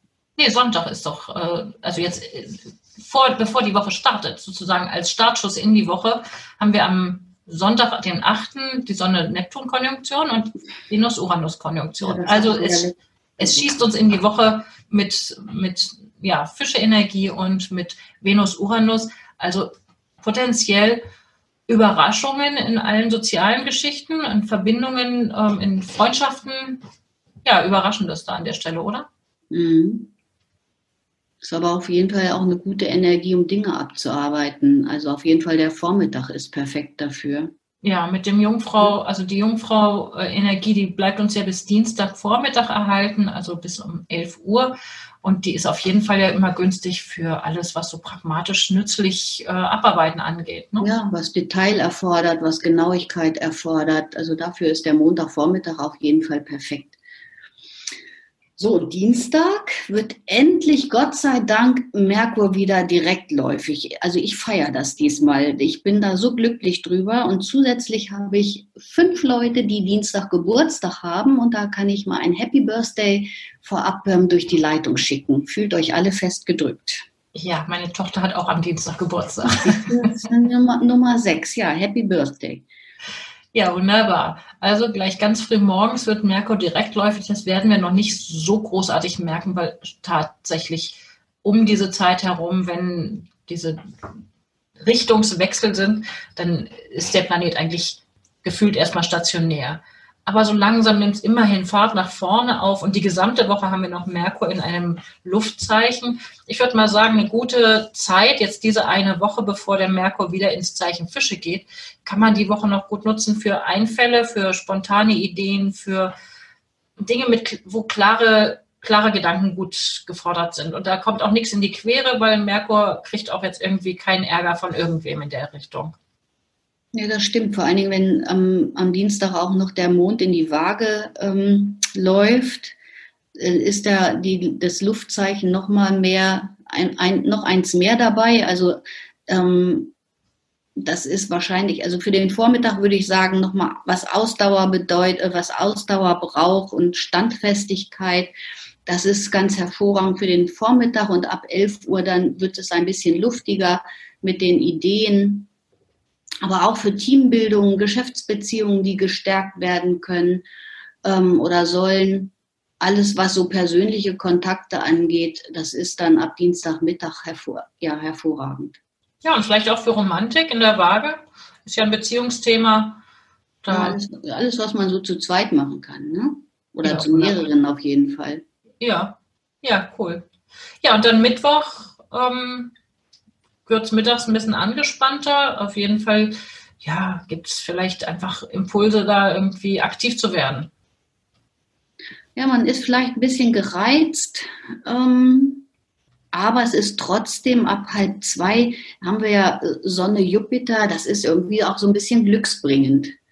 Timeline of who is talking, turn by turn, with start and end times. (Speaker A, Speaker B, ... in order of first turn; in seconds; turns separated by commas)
Speaker A: 0.4-12.9, Speaker B: 12.0-13.7, Speaker A: 13.4-21.0, Speaker A: 21.7-26.8, Speaker A: 27.4-29.1, Speaker B: 29.5-30.1, Speaker B: 31.4-37.5, Speaker A: 37.8-50.9, Speaker B: 50.8-57.0, Speaker B: 58.6-77.0, Speaker A: 77.3-80.2, Speaker B: 79.6-82.7, Speaker A: 83.5-93.8, Speaker A: 94.8-116.1, Speaker A: 117.0-126.0, Speaker B: 126.9-132.8, Speaker B: 133.4-139.9, Speaker B: 140.8-148.3, Speaker B: 148.9-155.5, Speaker B: 156.4-160.4, Speaker B: 161.0-168.8, Speaker A: 169.2-173.0, Speaker A: 173.6-174.0, Speaker B: 173.7-178.4, Speaker A: 176.8-177.5, Speaker A: 178.8-180.3, Speaker A: 180.8-182.8, Speaker A: 183.7-190.7, Speaker B: 192.4-195.7, Speaker B: 196.3-203.1